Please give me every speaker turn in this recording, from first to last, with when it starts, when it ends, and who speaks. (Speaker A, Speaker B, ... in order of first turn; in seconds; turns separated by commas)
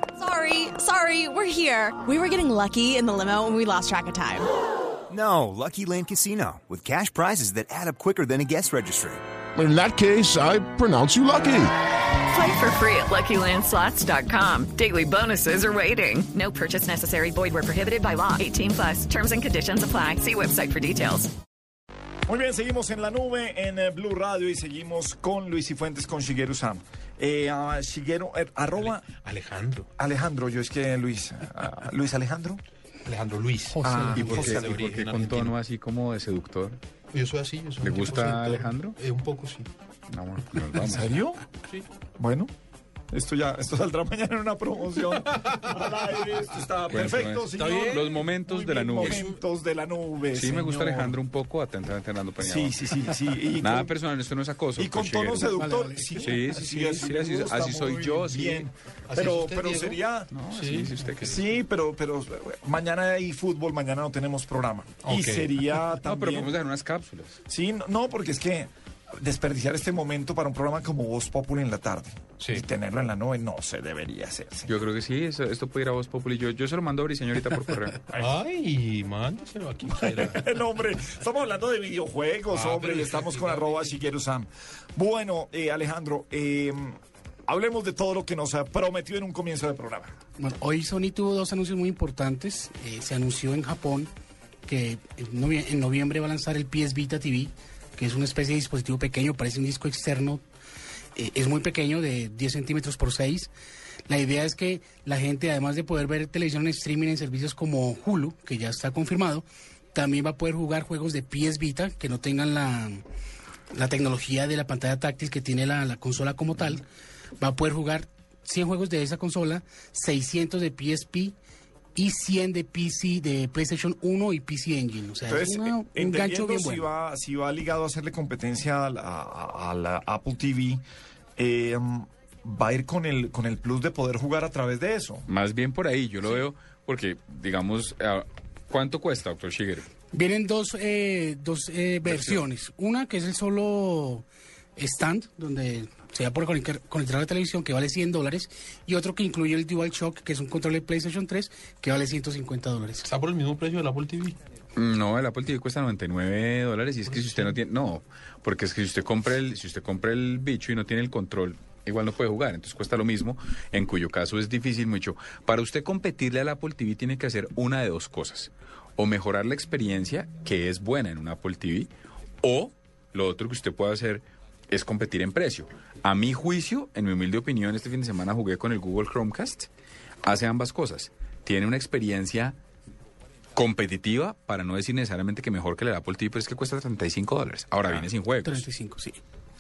Speaker A: 0.2-4.5, Speaker B: 5.1-9.2, Speaker C: 9.6-11.7, Speaker D: 12.3-21.3, Speaker E: 22.3-29.1, Speaker F: 28.8-29.9, Speaker E: 30.0-32.6, Speaker F: 33.0-35.5, Speaker G: 33.8-34.4, Speaker E: 33.8-34.6, Speaker H: 34.1-36.8, Speaker F: 37.1-39.7, Speaker H: 37.8-39.0, Speaker H: 40.1-41.1, Speaker E: 40.8-41.4, Speaker E: 42.2-42.5, Speaker E: 43.1-51.2, Speaker H: 46.9-49.3, Speaker F: 47.6-48.3, Speaker H: 50.3-52.9, Speaker E: 52.4-54.0, Speaker H: 53.6-55.5, Speaker E: 54.8-60.3, Speaker G: 55.4-57.1, Speaker H: 56.2-58.7, Speaker F: 59.1-60.0, Speaker H: 60.3-61.4, Speaker F: 60.5-61.2, Speaker E: 61.2-66.5, Speaker F: 65.0-65.5, Speaker H: 66.0-67.4, Speaker E: 67.5-74.7, Speaker F: 72.4-72.6, Speaker H: 74.7-78.0, Speaker F: 78.1-80.4, Speaker E: 79.9-90.1, Speaker F: 82.5-84.0, Speaker G: 90.4-94.1, Speaker G: 94.7-100.4, Speaker G: 101.2-103.5, Speaker G: 104.1-113.0, Speaker G: 113.7-116.8, Speaker G: 117.4-121.3, Speaker G: 121.9-126.9, Speaker E: 125.2-130.8, Speaker E: 131.4-135.2, Speaker H: 135.3-139.9, Speaker G: 140.1-153.1, Speaker H: 142.1-142.4, Speaker F: 153.0-154.4, Speaker H: 154.8-171.9, Speaker F: 157.2-157.6, Speaker H: 172.4-179.7, Speaker H: 180.2-182.6, Speaker H: 183.6-188.7, Speaker G: 188.4-189.2